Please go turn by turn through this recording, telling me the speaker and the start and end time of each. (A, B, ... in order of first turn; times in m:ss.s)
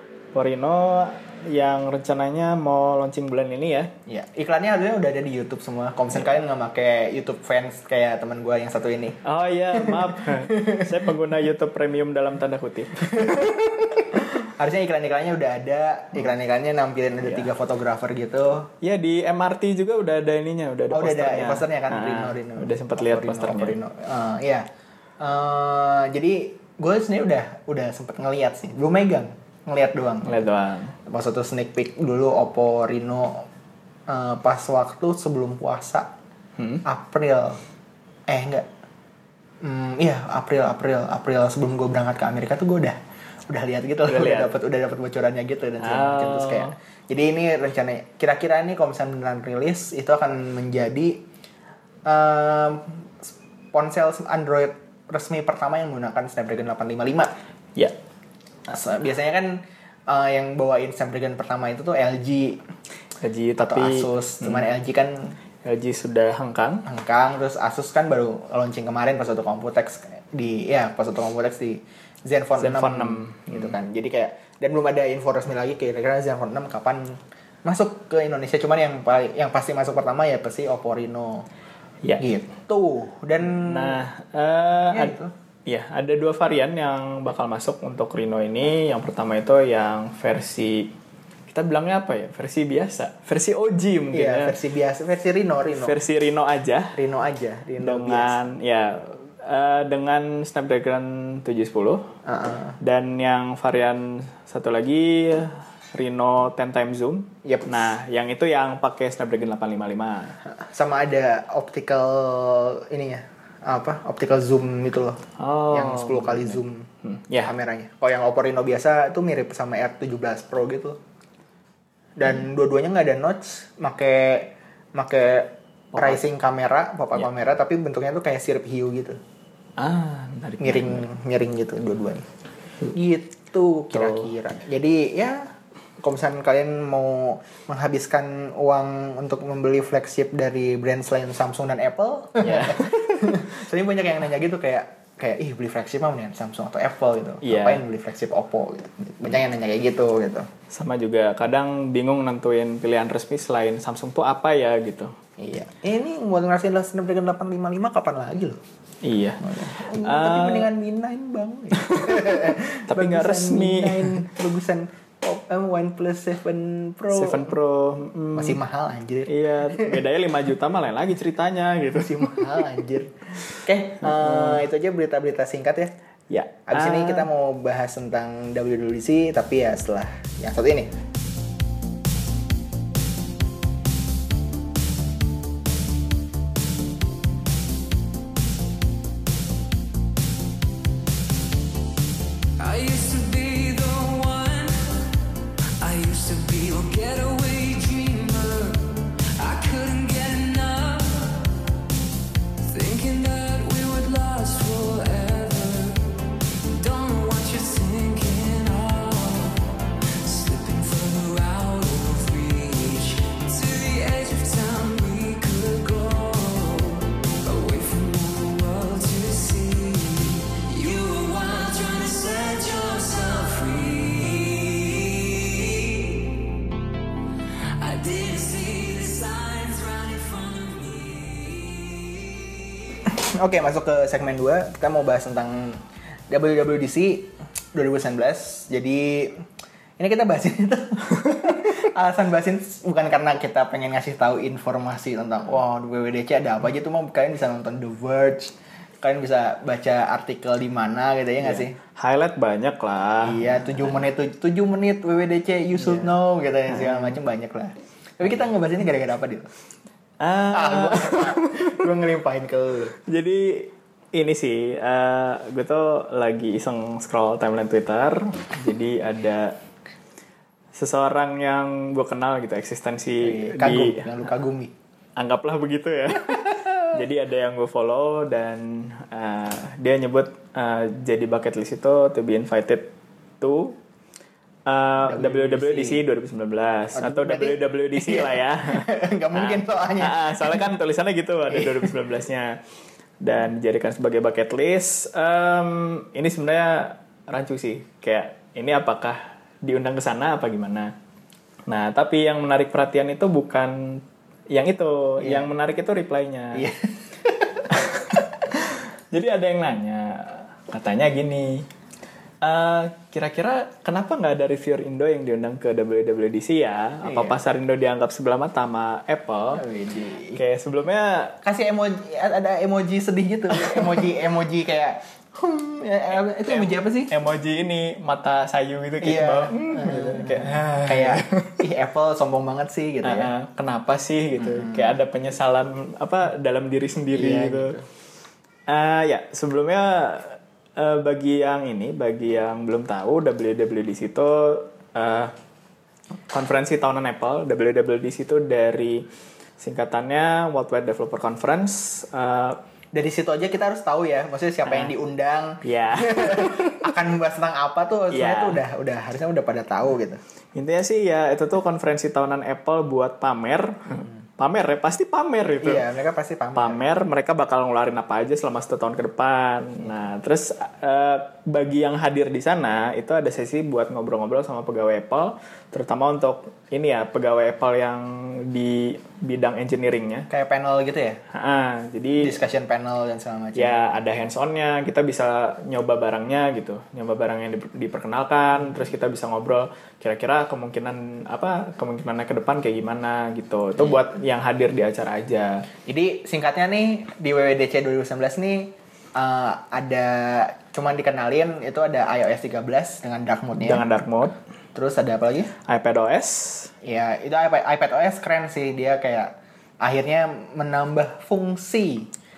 0:00.3-0:03.9 A
0:04.1-0:09.2 B
0:09.2-0:13.6 A
0:09.8-0:10.9 B
0:13.1-0:18.7 B
0:18.8-0:23.8 A
0:20.9-0:24.7 B
0:25.2-0:30.4 B
0:30.2-0:30.9 A
0:31.1-0:33.5 B
0:34.1-0:36.1 B
0:36.6-0:36.8 A
0:36.8-0:37.6 B
0:38.3-0:38.7 B
0:39.6-0:43.0 B
0:43.5-0:51.2 B
0:44.1-0:44.5 A
0:45.8-0:46.7 A
0:52.1-0:57.3 B
0:58.7-1:02.6 B
1:03.2-1:04.7 A
1:03.6-1:05.4 B
1:05.6-1:06.8 A
1:06.8-1:21.5 B
1:12.6-1:13.8 A
1:22.2-1:24.0 B
1:23.4-1:25.1 A
1:24.9-1:25.3 B
1:25.7-1:30.9 A
1:31.5-1:34.6 A
1:34.1-1:36.0 B
1:35.8-1:37.0 A
1:36.9-1:38.4 B
1:37.8-1:42.1 A
1:42.2-1:42.8 B
1:42.8-1:50.4 A
1:47.4-1:47.9 B
1:50.4-1:56.9 B
1:55.4-1:57.5 A
1:57.4-2:01.0 B
2:02.2-2:09.2 B
2:05.9-2:06.2 A
2:09.8-2:11.1 A
2:10.6-2:12.3 B
2:12.9-2:30.5 B
2:14.0-2:14.2 A
2:22.4-2:23.4 A
2:27.4-2:27.8 A
2:30.7-2:35.1 A
2:35.4-2:38.6 B
2:39.0-2:40.7 A
2:39.4-2:47.5 B
2:41.8-2:44.2 A
2:47.1-2:48.6 A
2:48.4-2:50.0 B
2:49.3-2:52.7 A
2:52.0-2:55.9 B
2:54.0-2:54.6 A
2:56.3-2:57.3 A
2:56.7-3:00.9 B
3:12.6-3:15.1 C
3:15.8-3:21.5 C
3:22.6-3:26.0 C
3:26.8-3:46.4 C
3:47.6-3:53.0 C
3:53.1-3:59.4 B
4:00.0-4:11.8 B
4:11.4-4:14.0 A
4:13.2-4:19.5 B
4:15.8-4:16.2 A
4:16.7-4:17.2 A
4:20.2-4:21.9 A
4:20.5-4:23.0 B
4:23.0-4:29.6 A
4:30.7-4:34.0 A
4:33.2-4:34.7 B
4:35.2-4:43.8 A
4:36.3-4:36.9 B
4:44.7-4:52.6 A
4:45.0-4:46.0 B
4:47.0-4:50.6 B
4:51.5-4:51.9 B
4:53.2-5:00.9 A
5:01.7-5:06.7 A
5:05.2-5:05.5 B
5:06.5-5:07.7 B
5:07.7-5:11.7 A
5:12.4-5:19.6 A
5:17.0-5:17.4 B
5:19.5-5:20.4 B
5:20.4-5:21.4 A
5:21.4-5:27.1 B
5:23.5-5:24.1 A
5:26.4-5:31.6 A
5:29.0-5:33.3 B
5:33.0-5:37.8 A
5:34.4-5:34.9 B
5:37.1-5:37.8 B
5:38.7-5:45.3 A
5:46.2-5:49.0 A
5:49.6-5:52.6 A
5:52.9-6:00.2 B
5:54.7-5:54.9 A
5:55.6-5:57.0 A
5:58.1-5:58.6 A
6:00.6-6:05.9 A
6:05.6-6:06.8 B
6:06.6-6:20.3 A
6:20.3-6:21.2 B
6:21.3-6:22.4 A
6:22.2-6:23.8 B
6:23.6-6:35.6 A
6:35.9-6:43.8 B
6:43.6-6:44.4 A
6:44.8-6:45.5 B
6:45.6-6:46.7 A
6:46.8-6:52.1 B